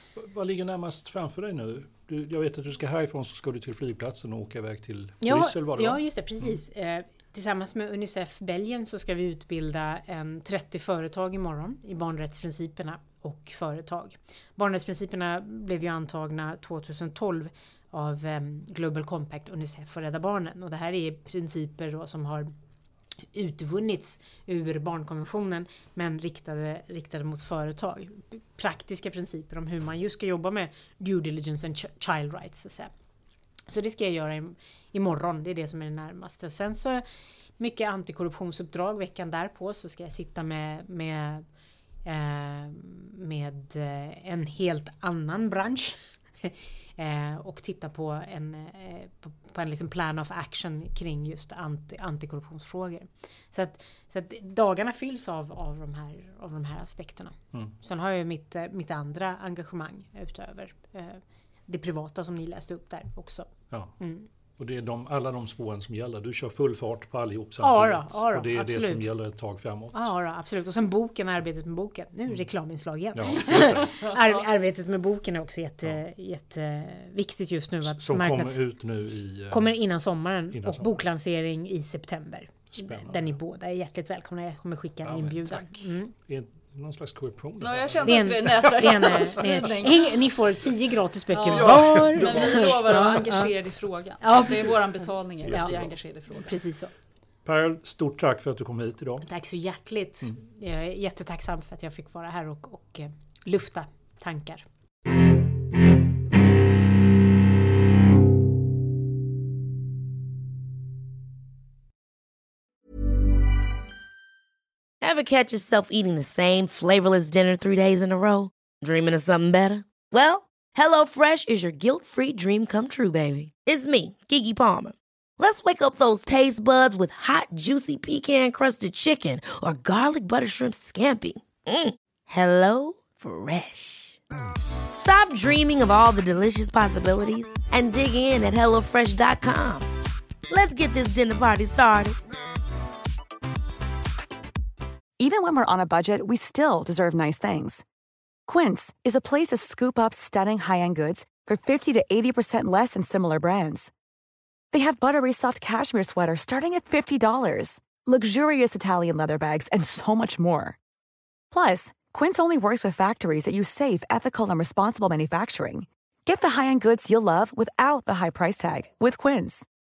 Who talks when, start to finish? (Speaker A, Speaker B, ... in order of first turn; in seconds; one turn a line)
Speaker A: 0.1-6.5
Speaker B: 5.2-22.5
Speaker B: 23.3-32.9
Speaker B: 33.7-37.0
Speaker B: 37.6-41.5
Speaker B: 42.0-64.3
Speaker A: 64.6-70.1
Speaker B: 67.6-69.1
Speaker B: 69.9-78.6
Speaker A: 73.1-73.9
Speaker C: 73.5-74.2
Speaker A: 77.8-79.7
Speaker B: 79.5-86.1
Speaker A: 80.5-81.0
Speaker A: 82.7-83.3
Speaker A: 85.0-89.9
Speaker C: 87.6-90.1
Speaker B: 88.0-93.5
Speaker C: 91.3-96.6
Speaker A: 91.5-93.2
Speaker B: 94.2-95.8
Speaker A: 95.5-96.0
Speaker B: 96.3-96.9
Speaker A: 97.5-99.3
Speaker B: 99.2-104.7
Speaker D: 115.0-134.2
Speaker D: 135.0-139.9
Speaker D: 140.5-142.2
Speaker E: 145.2-147.8
Speaker E: 148.5-153.9
Speaker E: 154.7-160.8
Speaker E: 161.5-169.7